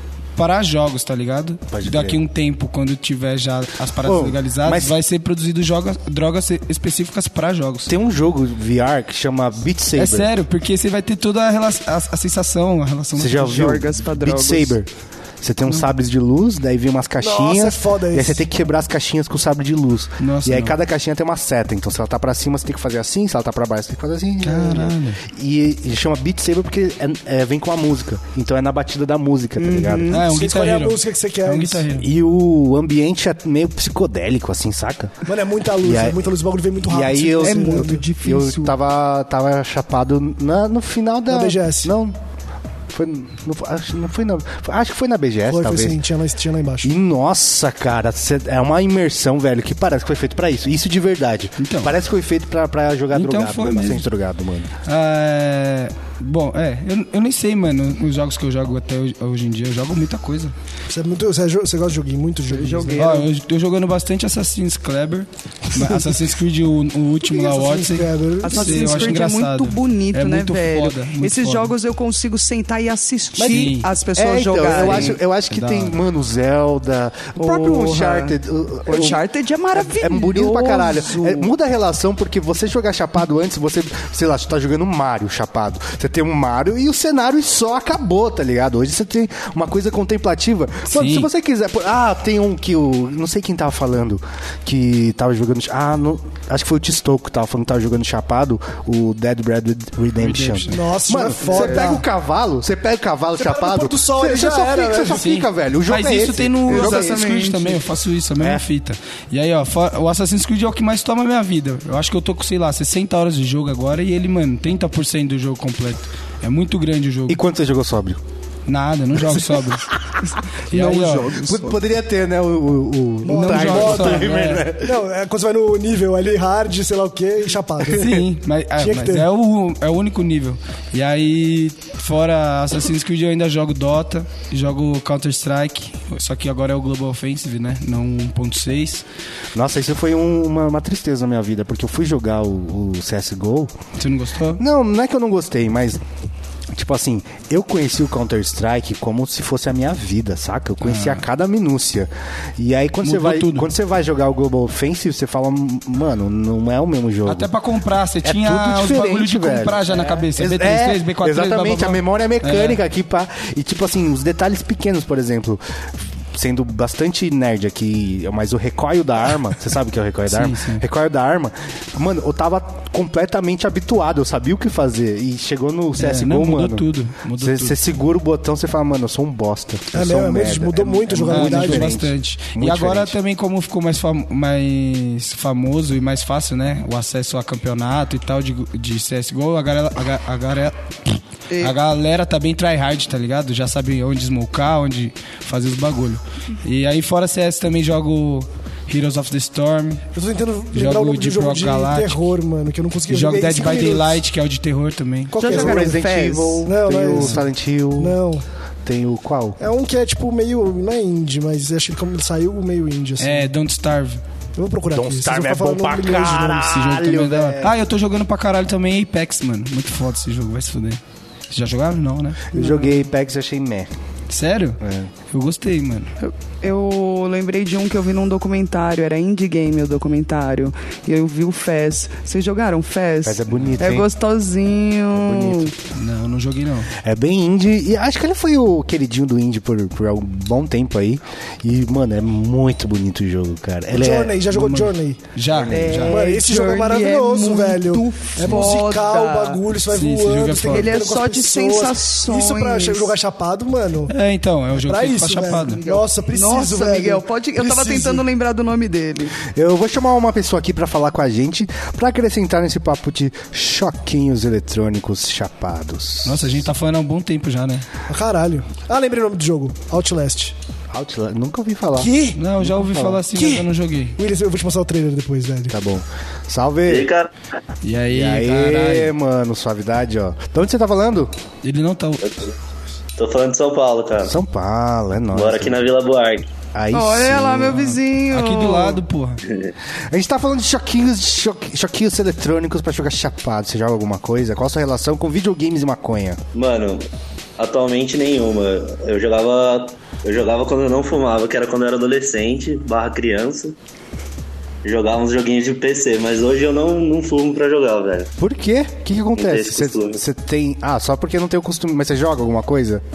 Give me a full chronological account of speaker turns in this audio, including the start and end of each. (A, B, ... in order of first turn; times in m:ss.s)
0:00.4-0:07.9 A
0:01.7-0:02.2 B
0:04.0-0:05.0 B
0:07.9-0:10.3 B
0:10.0-0:13.8 A
0:13.1-0:14.9 B
0:13.5-0:14.8 C
0:15.4-0:30.2 B
0:17.2-0:18.4 D
0:20.2-0:20.8 A
0:24.4-0:25.2 A
0:29.6-0:30.2 C
0:30.1-0:32.1 A
0:30.3-0:31.9 D
0:32.0-0:35.1 B
0:35.3-0:38.0 D
0:35.8-0:42.2 B
0:37.4-0:38.7 C
0:41.3-0:41.9 D
0:42.9-0:46.0 B
0:45.5-0:46.9 D
0:46.8-0:54.7 B
0:51.6-0:51.9 A
0:53.1-0:54.0 A
0:54.8-1:00.5 A
1:00.9-1:03.1 D
1:02.5-1:03.3 C
1:03.0-1:11.7 A
1:05.8-1:06.1 D
1:07.2-1:09.2 D
1:08.4-1:15.2 C
1:13.4-1:19.2 B
1:13.4-1:13.9 A
1:14.7-1:16.0 A
1:17.4-1:21.5 C
1:19.7-1:47.2 B
1:30.9-1:31.3 A
1:40.2-1:40.8 A
1:40.7-1:42.0 D
1:41.4-1:41.8 C
1:43.4-1:45.2 D
1:45.2-1:57.4 A
1:46.7-1:47.8 C
1:48.4-1:48.6 B
1:57.3-1:58.2 B
1:58.7-1:59.9 A
2:00.7-2:01.7 A
2:00.7-2:05.0 B
2:03.2-2:04.3 D
2:03.3-2:04.6 A
2:04.8-2:08.3 D
2:07.9-2:19.0 A
2:08.8-2:09.3 D
2:19.5-2:23.7 B
2:24.0-2:24.6 A
2:24.6-2:26.0 B
2:26.7-2:37.5 B
2:30.8-2:31.2 A
2:33.0-2:33.7 A
2:37.3-2:42.8 A
2:38.2-2:45.6 B
2:46.3-2:56.9 B
2:50.3-2:50.8 A
2:56.0-2:57.8 A
2:57.4-3:03.2 B
2:59.9-3:01.9 D
3:01.3-3:20.0 A
3:20.1-3:24.2 D
3:20.7-3:22.3 A
3:23.1-3:25.3 A
3:25.3-3:26.0 D
3:25.4-3:26.7 C
3:25.4-3:28.2 B
3:26.6-3:27.4 D
3:27.1-3:27.4 A
3:28.0-3:28.4 D
3:28.8-3:29.6 B
3:29.6-3:33.5 D
3:33.2-3:34.2 A
3:34.6-3:36.7 D
3:34.9-3:37.8 B
3:36.6-3:41.0 A
3:41.5-3:42.5 A
3:42.5-3:43.9 B
3:42.6-3:42.9 C
3:44.3-3:44.8 A
3:44.8-3:45.1 B
3:45.3-3:46.1 A
3:46.2-3:55.7 C
3:53.2-3:54.1 B
3:55.1-3:55.7 B
3:55.9-3:56.9 A
3:57.0-4:04.4 B
4:03.9-4:05.2 D
4:04.5-4:06.2 A
4:05.5-4:06.1 B
4:05.7-4:09.6 C
4:06.1-4:14.1 D
4:09.9-4:10.9 A
4:10.7-4:13.1 C
4:14.1-4:15.8 A
4:14.8-4:18.2 D
4:15.7-4:19.4 C
4:19.5-4:26.6 B
4:26.2-4:27.8 A
4:28.1-4:30.6 D
4:30.9-4:33.2 B
4:32.0-4:32.4 D
4:32.4-4:34.2 A
4:33.3-4:35.7 D
4:35.7-4:37.1 B
4:36.9-4:37.3 E
4:37.8-4:39.1 A
4:38.1-4:41.3 B
4:41.6-4:42.3 A
4:42.2-4:42.5 E
4:43.2-4:44.3 E
4:44.2-4:45.9 B
4:45.3-4:46.5 E
4:46.7-4:47.8 B
4:46.9-4:49.0 C
4:47.6-4:49.4 A
4:50.1-4:56.4 B
4:56.5-4:57.1 E
4:57.6-5:03.8 E
5:04.8-5:08.3 E
5:08.4-5:13.0 B
5:09.4-5:10.2 E